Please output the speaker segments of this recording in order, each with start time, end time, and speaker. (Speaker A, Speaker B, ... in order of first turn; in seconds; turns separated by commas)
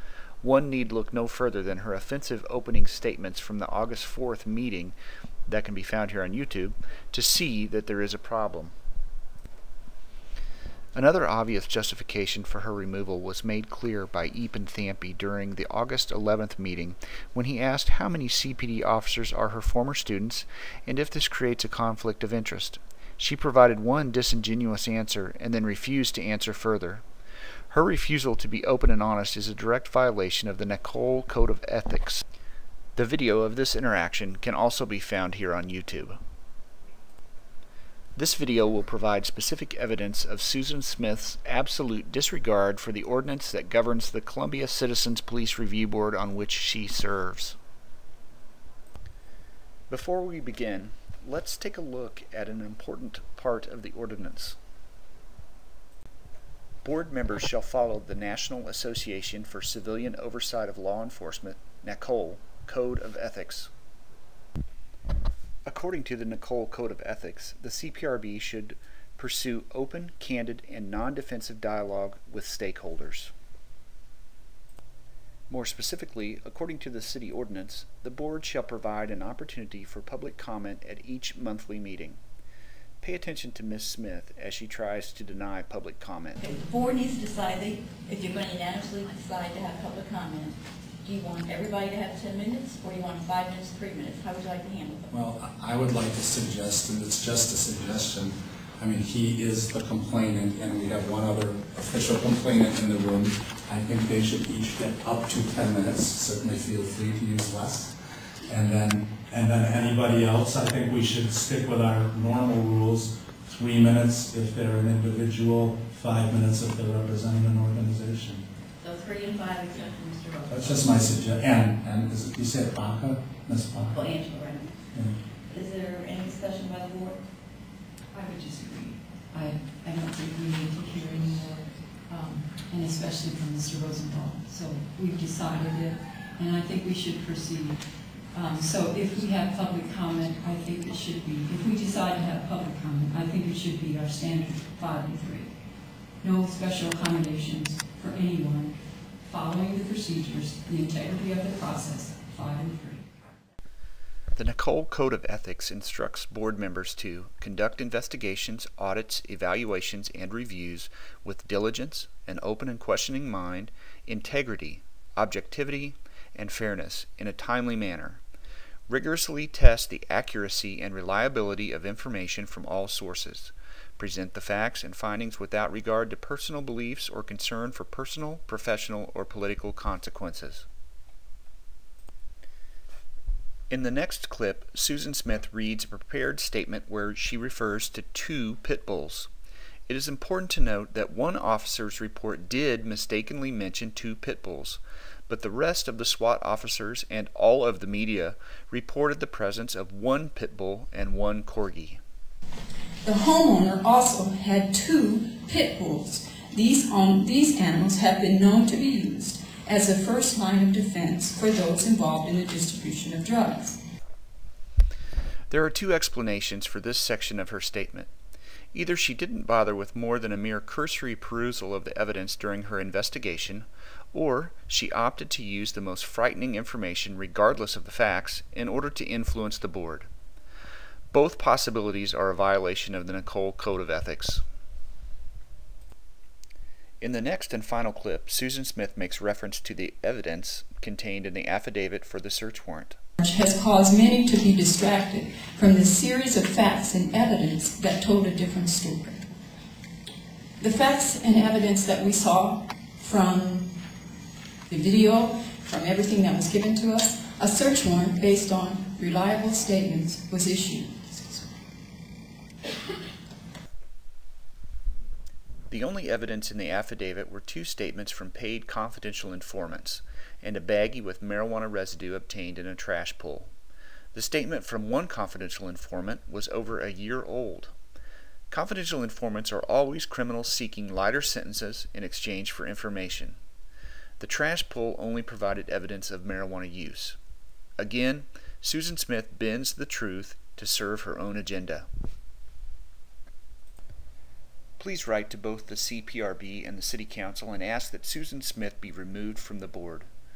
Speaker A: 0.4-5.0, Speaker A: 5.5-8.7, Speaker A: 10.9-27.0, Speaker A: 27.7-32.2, Speaker A: 33.0-36.2, Speaker A: 38.2-47.6, Speaker A: 49.9-54.6, Speaker A: 56.8-63.7, Speaker A: 65.7-73.3, Speaker A: 75.5-82.2, Speaker A: 83.0-86.4, Speaker B: 86.4-95.1, Speaker C: 95.1-108.0, Speaker C: 108.5-118.4, Speaker B: 118.8-120.9, Speaker C: 120.5-124.0, Speaker B: 123.9-124.7, Speaker B: 125.5-127.2, Speaker D: 128.2-137.8, Speaker E: 130.8-131.3, Speaker D: 138.3-145.5, Speaker D: 146.2-148.7, Speaker D: 149.2-153.0, Speaker A: 154.3-168.2, Speaker A: 168.9-180.7, Speaker A: 183.7-189.3, Speaker A: 189.9-202.0, Speaker E: 203.0-213.8, Speaker A: 215.5-218.1, Speaker A: 218.7-230.1, Speaker A: 231.1-234.4, Speaker A: 237.0-243.0, Speaker E: 243.2-249.2, Speaker E: 250.6-253.7, Speaker E: 254.7-261.5, Speaker A: 265.7-273.5, Speaker A: 274.1-277.7, Speaker A: 278.5-283.4, Speaker A: 284.2-287.2, Speaker A: 287.8-291.9, Speaker A: 294.8-300.1